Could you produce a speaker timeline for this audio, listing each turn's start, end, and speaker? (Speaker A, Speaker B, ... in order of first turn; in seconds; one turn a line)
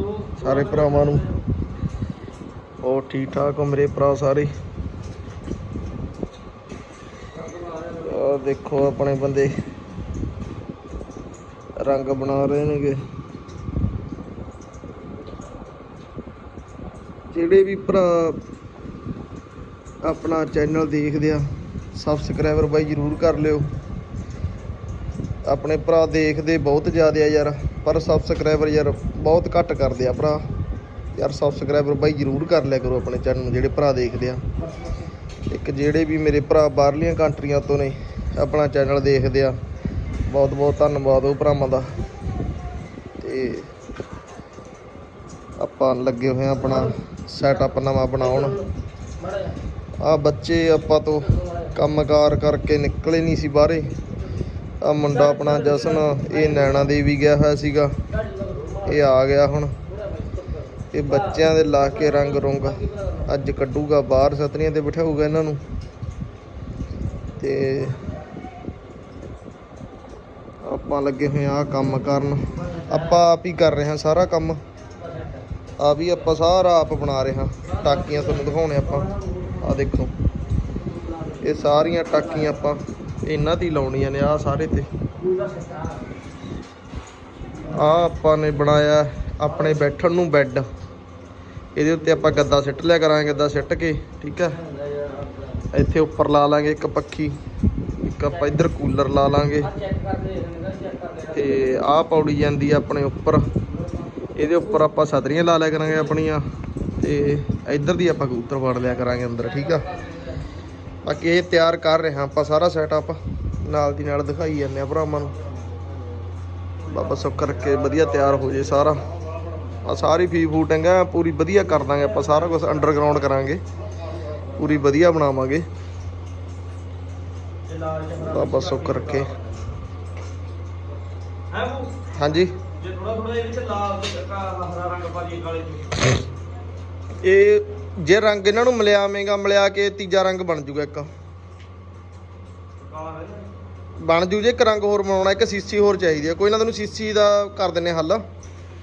Speaker A: 0.2-1.2
Speaker B: 0.4-1.2
Speaker B: 2.8-4.5
Speaker B: 7.9-9.5
Speaker B: 11.8-13.0
Speaker B: 17.3-18.4
Speaker B: 20.0-21.4
Speaker B: 21.9-23.6
Speaker B: 25.5-30.4
Speaker B: 31.1-34.4
Speaker B: 35.5-39.5
Speaker B: 40.3-41.9
Speaker B: 43.2-43.7
Speaker B: 45.6-48.6
Speaker B: 50.0-53.9
Speaker B: 54.8-57.9
Speaker A: 58.3-58.8
Speaker B: 58.8-59.7
Speaker B: 60.9-65.6
Speaker B: 67.4-68.0
Speaker B: 70.6-74.6
Speaker B: 75.8-80.1
Speaker B: 81.4-84.9
Speaker A: 85.3-86.0
Speaker B: 87.7-90.6
Speaker B: 91.8-94.6
Speaker A: 94.9-95.5
Speaker B: 95.7-97.3
Speaker B: 98.0-99.7
Speaker A: 99.8-101.3
Speaker B: 101.3-103.4
Speaker B: 104.3-106.4
Speaker B: 107.0-109.9
Speaker B: 111.0-115.3
Speaker B: 116.9-119.1
Speaker B: 119.8-123.6
Speaker B: 124.5-125.6
Speaker A: 127.7-129.8
Speaker B: 128.2-129.3
Speaker A: 131.5-131.9
Speaker B: 132.1-132.6
Speaker A: 132.7-136.2
Speaker B: 137.2-141.1
Speaker A: 142.8-143.5
Speaker B: 144.0-148.2